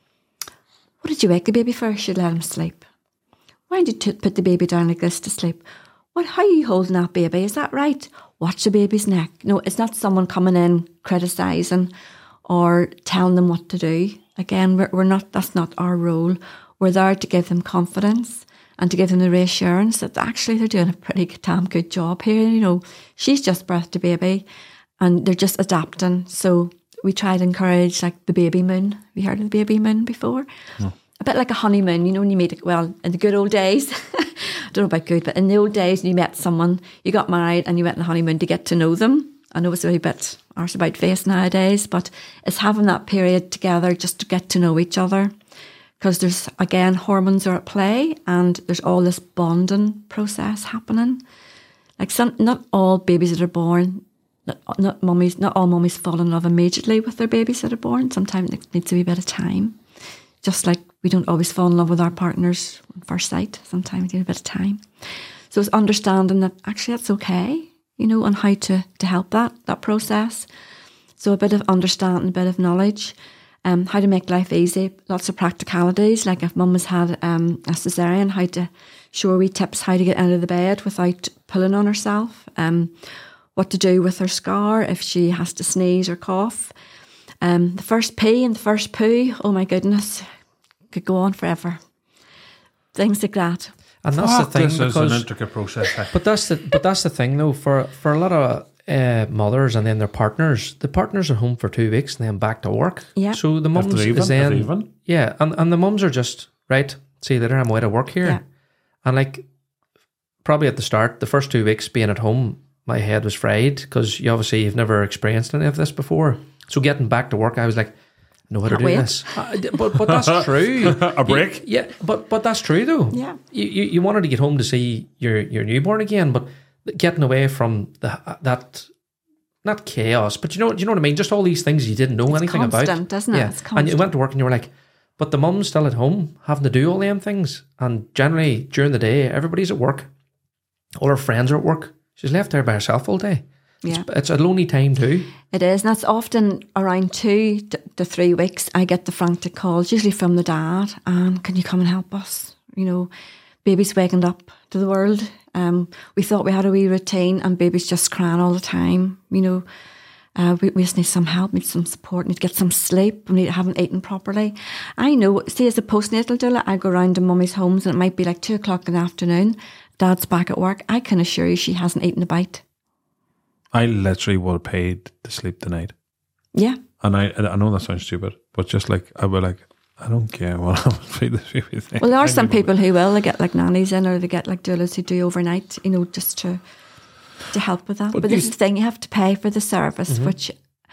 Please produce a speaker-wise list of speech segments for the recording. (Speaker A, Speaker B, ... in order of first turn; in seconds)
Speaker A: 1.0-2.8, 3.7-5.6, 6.1-11.9, 12.4-24.4, 25.0-30.4, 31.2-45.3, 46.0-51.2, 52.0-59.8, 60.4-64.8, 65.5-70.5, 71.2-83.0, 83.5-86.7, 87.4-90.3, 90.9-91.8, 92.9-93.7, 103.2-103.4, 118.7-119.2, 123.1-123.4, 132.3-134.1, 145.5-153.1, 153.6-159.6, 160.3-172.6, 176.5-176.8, 182.0-186.6, 187.5-190.5
Speaker B: 94.0-95.3, 96.1-108.4, 109.0-109.5, 110.4-117.9, 118.5-128.9, 129.6-140.1, 140.9-145.3, 190.1-190.3
Speaker C: 94.1-96.1, 103.7-104.9, 119.8-121.6, 173.7-175.9, 177.0-182.7, 188.1-188.5